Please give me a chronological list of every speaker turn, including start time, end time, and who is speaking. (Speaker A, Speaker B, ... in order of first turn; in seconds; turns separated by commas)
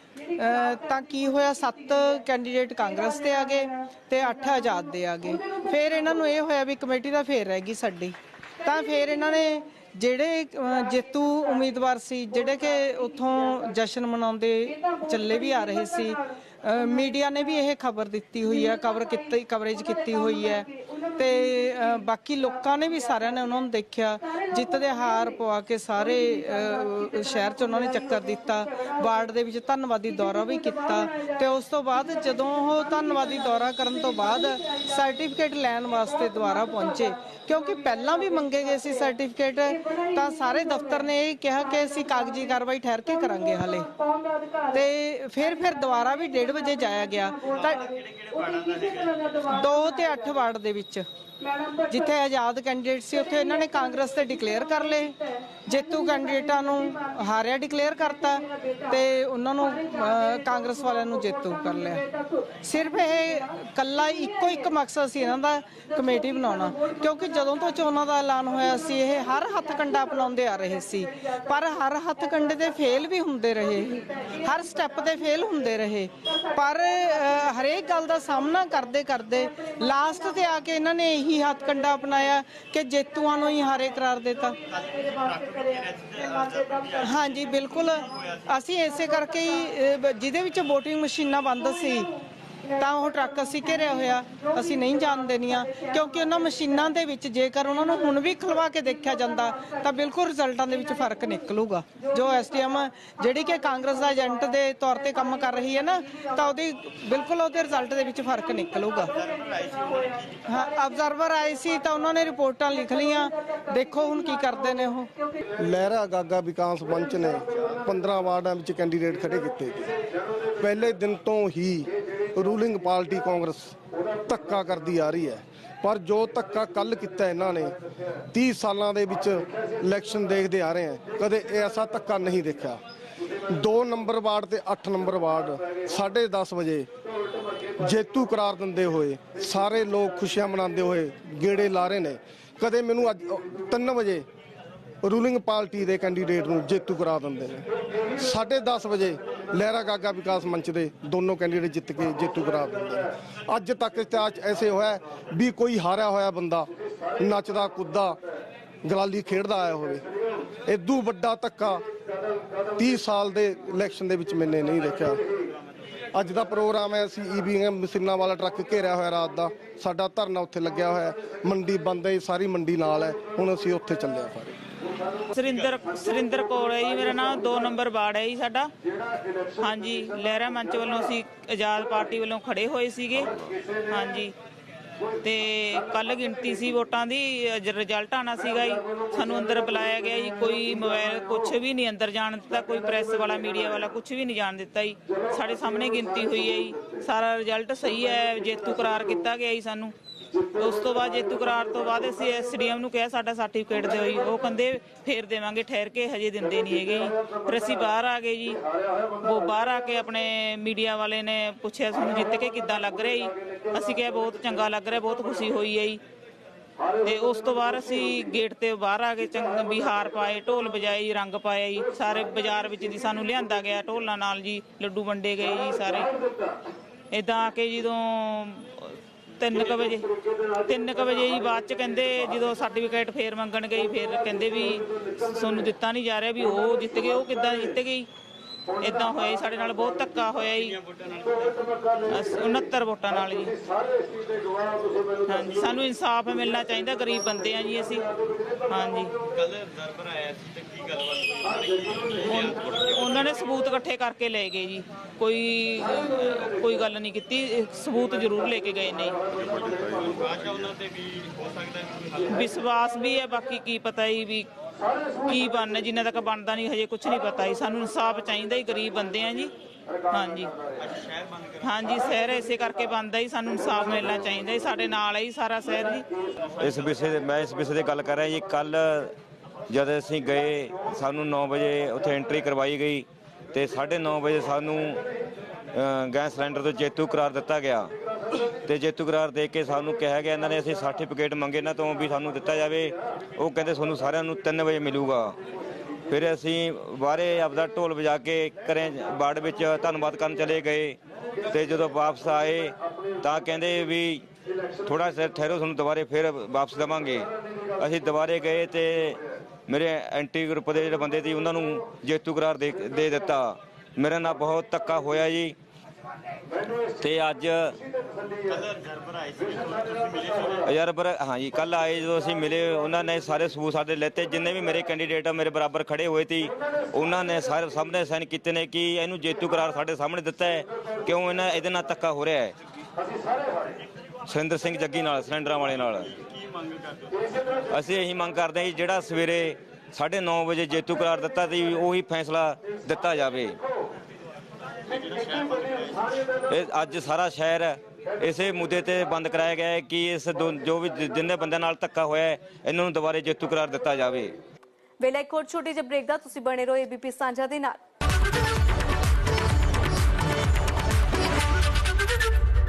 Speaker A: 0.4-43.9, Speaker A: 44.7-47.8, Speaker B: 47.4-49.5, Speaker A: 49.5-51.1, Speaker A: 51.9-55.2, Speaker A: 55.7-62.0, Speaker A: 62.6-84.6, Speaker B: 84.7-88.6, Speaker A: 87.0-92.1, Speaker A: 92.8-109.1, Speaker B: 109.0-111.0, Speaker A: 110.5-115.1, Speaker C: 115.6-119.9, Speaker B: 117.5-117.8, Speaker C: 120.6-123.8, Speaker C: 124.3-127.7, Speaker C: 128.3-132.8, Speaker C: 133.5-136.9, Speaker C: 137.8-144.3, Speaker C: 145.0-147.7, Speaker C: 148.2-158.2, Speaker C: 158.8-160.0, Speaker C: 160.7-161.8, Speaker C: 162.8-165.2, Speaker C: 166.1-174.6, Speaker B: 166.2-166.4, Speaker D: 175.3-178.7, Speaker B: 175.5-175.8, Speaker D: 179.6-183.3, Speaker D: 183.9-184.3, Speaker D: 185.2-199.9, Speaker D: 200.6-208.6, Speaker D: 209.2-216.0, Speaker D: 217.0-226.1, Speaker D: 227.1-230.1, Speaker D: 230.7-238.1, Speaker D: 238.8-240.8, Speaker B: 240.4-242.5, Speaker D: 242.1-243.6, Speaker D: 245.3-248.1, Speaker D: 248.7-249.1, Speaker B: 249.3-253.6, Speaker D: 252.3-259.2, Speaker B: 259.3-262.6, Speaker D: 262.3-264.5, Speaker D: 265.3-269.5, Speaker D: 270.1-270.5, Speaker B: 270.8-272.4, Speaker D: 271.6-276.1, Speaker B: 276.4-277.2, Speaker E: 276.6-279.1, Speaker E: 279.7-285.0, Speaker E: 285.7-287.9, Speaker E: 288.6-295.4, Speaker E: 296.1-301.0, Speaker E: 301.5-304.2, Speaker E: 304.9-315.6, Speaker E: 317.0-317.7, Speaker B: 318.4-320.7, Speaker E: 320.7-332.5, Speaker E: 334.3-336.1, Speaker B: 335.7-337.4, Speaker E: 337.7-343.6, Speaker B: 344.9-346.3, Speaker E: 346.5-354.3, Speaker F: 355.0-357.8